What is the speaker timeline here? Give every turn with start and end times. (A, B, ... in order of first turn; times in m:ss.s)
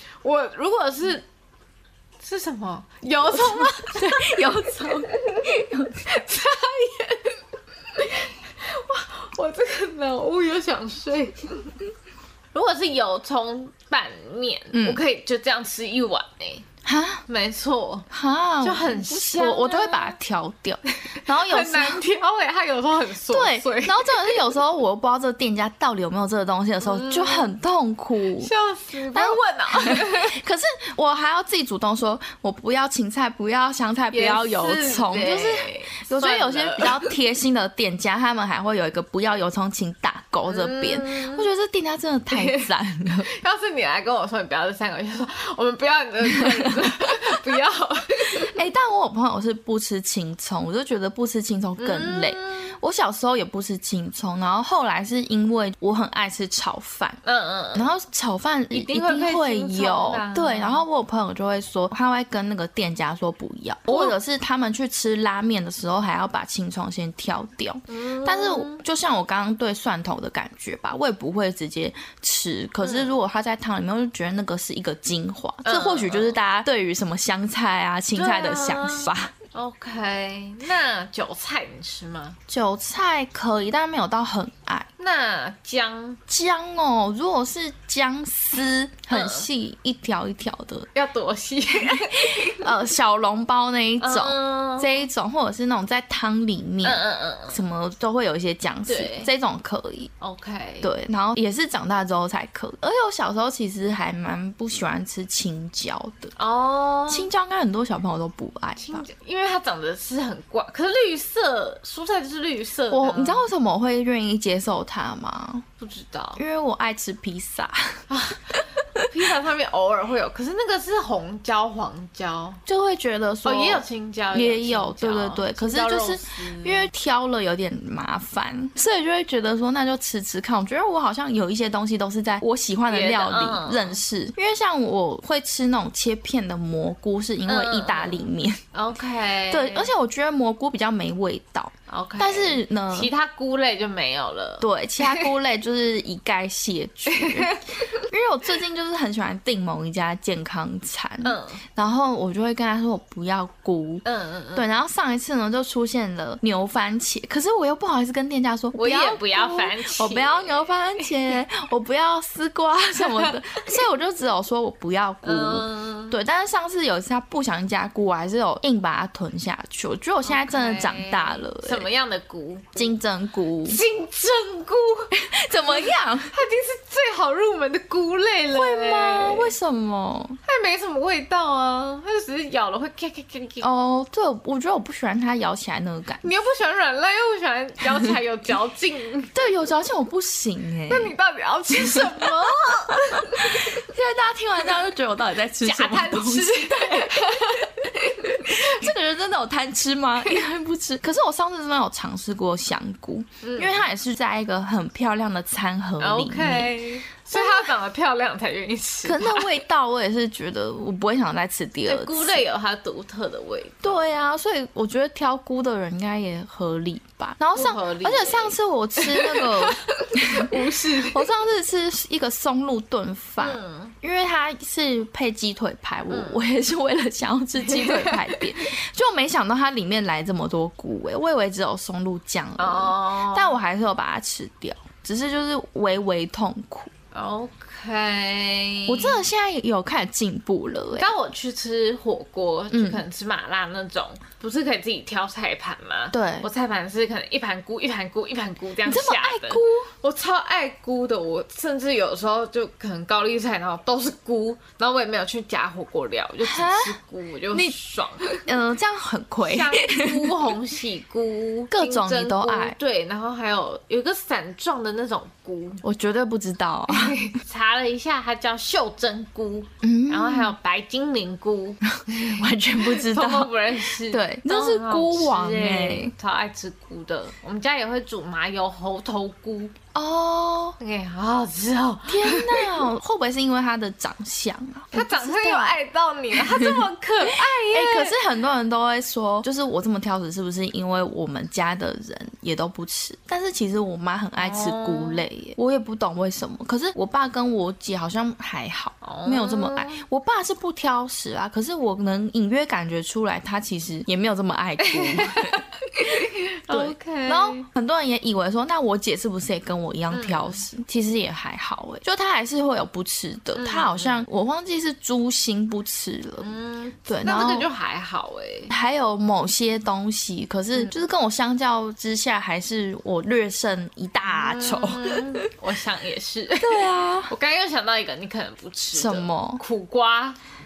0:00.2-0:01.2 A
0:02.2-0:11.8 A
0:03.3-0:06.1 B
0:12.5-0:16.7 A
0:14.7-0:15.0 B
0:16.8-0:17.2 B
0:17.3-0:18.1 A
0:18.1-0:22.0 B
0:18.6-0:20.2 A
0:20.9-0:24.5 A
0:23.3-0:28.5 B
0:26.8-0:27.6 A
0:28.4-0:30.4 A
0:29.1-0:43.3 B
0:34.1-0:37.1 A
0:40.4-0:41.5 A
0:42.3-0:42.7 A
0:43.3-0:48.5 A
0:46.4-0:46.7 B
0:48.4-0:57.2 B
0:51.8-0:52.8 A
0:57.2-0:57.9 A
0:57.7-1:19.3 B
0:58.7-1:00.8 A
1:03.9-1:04.2 A
1:07.9-1:08.8 A
1:12.8-1:13.1 A
1:15.6-1:16.4 A
1:18.2-1:22.4 A
1:22.5-1:24.9 B
1:25.0-1:26.2 A
1:26.3-1:30.9 B
1:29.1-1:29.5 A
1:31.0-1:32.7 A
1:31.8-1:40.1 B
1:34.0-1:35.0 A
1:36.8-1:37.6 A
1:38.9-1:39.3 A
1:40.2-1:40.9 A
1:40.8-1:46.4 B
1:46.4-1:47.3 A
1:47.1-1:49.1 B
1:48.8-1:53.5 A
1:52.9-1:55.7 B
1:55.8-1:56.4 A
1:56.4-1:59.1 B
1:58.1-2:02.6 A
2:02.7-2:18.6 B
2:03.4-2:06.9 A
2:12.9-2:14.0 A
2:17.5-2:19.9 A
2:19.5-2:23.1 B
2:21.9-2:25.3 A
2:24.6-2:51.9 B
2:27.1-2:28.0 A
2:31.2-2:31.6 A
2:34.0-2:34.6 A
2:38.8-2:41.3 A
2:43.0-2:43.7 A
2:45.2-2:46.2 A
2:50.2-2:53.0 A
2:52.8-2:53.8 B
2:53.6-2:55.1 A
2:55.1-2:56.4 B
2:55.7-2:59.6 A
2:58.5-3:00.4 B
3:00.5-3:03.7 A
3:03.6-3:06.3 B
3:06.2-3:09.4 A
3:09.3-3:11.1 B
3:10.9-3:13.9 A
3:11.8-3:26.8 B
3:15.6-3:18.9 A
3:23.4-3:23.8 A
3:26.0-3:29.6 A
3:27.3-3:27.7 B
3:29.0-3:32.4 B
3:31.9-3:34.0 A
3:33.8-3:56.9 B
3:37.6-3:41.3 A
3:43.4-3:43.9 A
3:46.1-3:46.4 A
3:47.6-3:48.6 A
3:52.6-3:53.6 A
3:57.1-3:59.2 A
3:58.9-4:01.1 B
4:00.9-4:18.4 A
4:02.7-4:03.0 B
4:06.1-4:06.5 B
4:08.9-4:09.9 B
4:16.4-4:17.0 B
4:17.5-4:17.8 B
4:18.4-4:20.5 B
4:19.4-4:25.8 A
4:21.7-4:22.8 B
4:25.8-4:27.2 B
4:26.9-4:39.8 A
4:29.8-4:30.5 B
4:31.9-4:36.1 B
4:39.9-4:40.8 B
4:40.8-4:42.9 A
4:42.1-4:45.8 B
4:44.9-4:48.2 A
4:46.4-5:16.6 B
4:54.4-4:55.2 A
4:59.0-5:00.0 A
5:04.8-5:07.7 A
5:10.1-5:10.6 A
5:13.6-5:14.3 A
5:16.4-5:18.7 A
5:17.1-5:17.7 B
5:18.7-5:25.5 B
5:24.2-5:30.4 A
5:26.6-5:27.3 B
5:28.9-5:29.6 B